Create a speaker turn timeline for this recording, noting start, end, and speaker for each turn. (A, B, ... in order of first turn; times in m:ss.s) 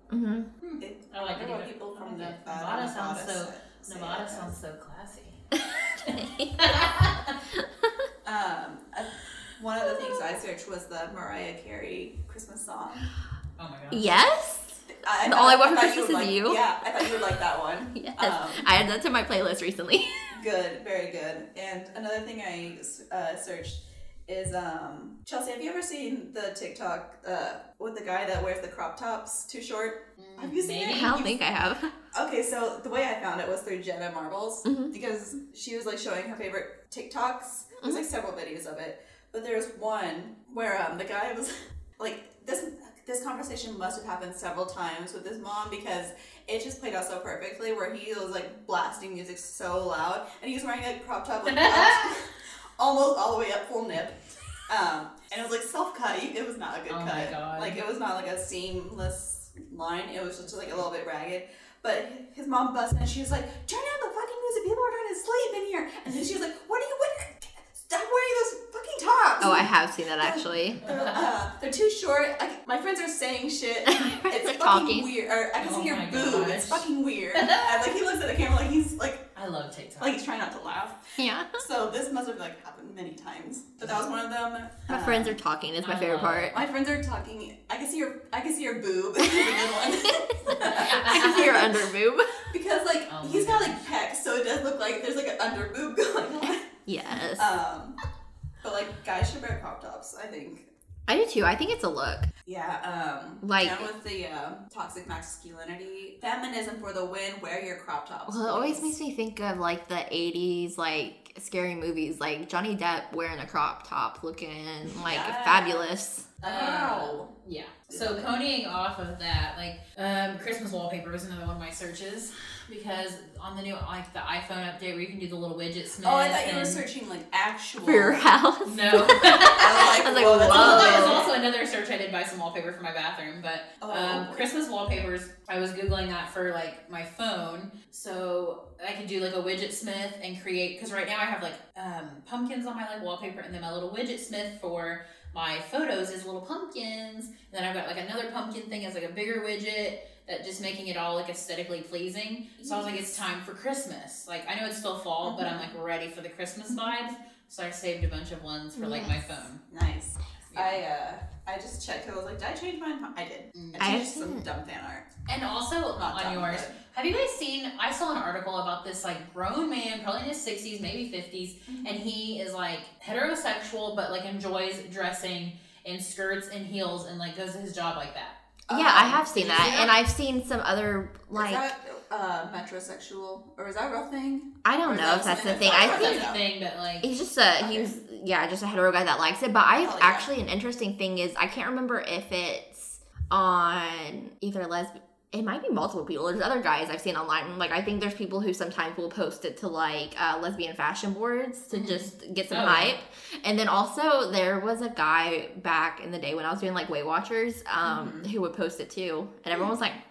0:00.1-0:00.5 A
0:00.6-0:05.5 B
0:00.8-0:04.5 C
0:06.0-0:07.4 B
0:06.1-0:08.1 A
0:08.2-0:13.1 C
0:10.0-0:10.3 A
0:13.6-0:14.0 B
0:13.9-0:17.2 A
0:15.0-0:18.7 C
0:17.9-0:20.3 A
0:20.3-0:31.4 C
0:30.2-0:31.2 B
0:30.9-0:31.9 A
0:32.1-1:19.3 C
0:34.6-0:34.9 A
0:51.5-0:52.2 B
0:56.9-0:57.8 B
1:09.4-1:10.8 A
1:10.8-1:11.3 B
1:13.9-1:15.1 A
1:15.6-1:18.0 B
1:19.4-1:20.2 B
1:20.0-1:25.4 C
1:21.2-1:21.6 A
1:24.9-1:26.6 A
1:25.8-1:26.5 B
1:26.5-1:31.7 C
1:29.3-1:32.3 A
1:30.6-1:31.6 B
1:32.5-1:36.7 C
1:33.1-1:33.8 B
1:36.9-1:37.5 A
1:37.4-1:38.0 C
1:38.6-1:40.7 C
1:41.1-1:42.3 A
1:42.5-1:49.0 C
1:43.4-1:43.9 A
1:48.3-1:56.3 A
1:55.0-1:55.9 C
1:56.4-2:06.8 B
1:56.4-1:57.3 C
1:57.9-1:58.2 C
2:06.0-2:08.3 C
2:07.8-2:11.3 A
2:08.6-2:39.6 B
2:09.5-2:11.4 C
2:13.8-2:14.5 C
2:32.6-2:33.2 C
2:35.2-2:35.7 C
2:38.8-2:39.5 A
2:39.7-2:45.1 C
2:40.5-2:40.8 B
2:43.6-2:43.9 B
2:43.8-2:44.4 A
2:45.3-2:58.4 B
2:45.9-2:46.8 C
2:51.7-2:52.0 C
2:58.7-2:59.3 C
2:58.7-3:01.6 A
2:59.2-3:00.0 B
3:01.3-3:06.4 C
3:04.6-3:06.3 A
3:05.6-3:07.1 B
3:07.0-3:30.0 A
3:07.6-3:07.9 C
3:09.7-3:10.3 C
3:21.7-3:22.9 B
3:27.8-3:28.3 C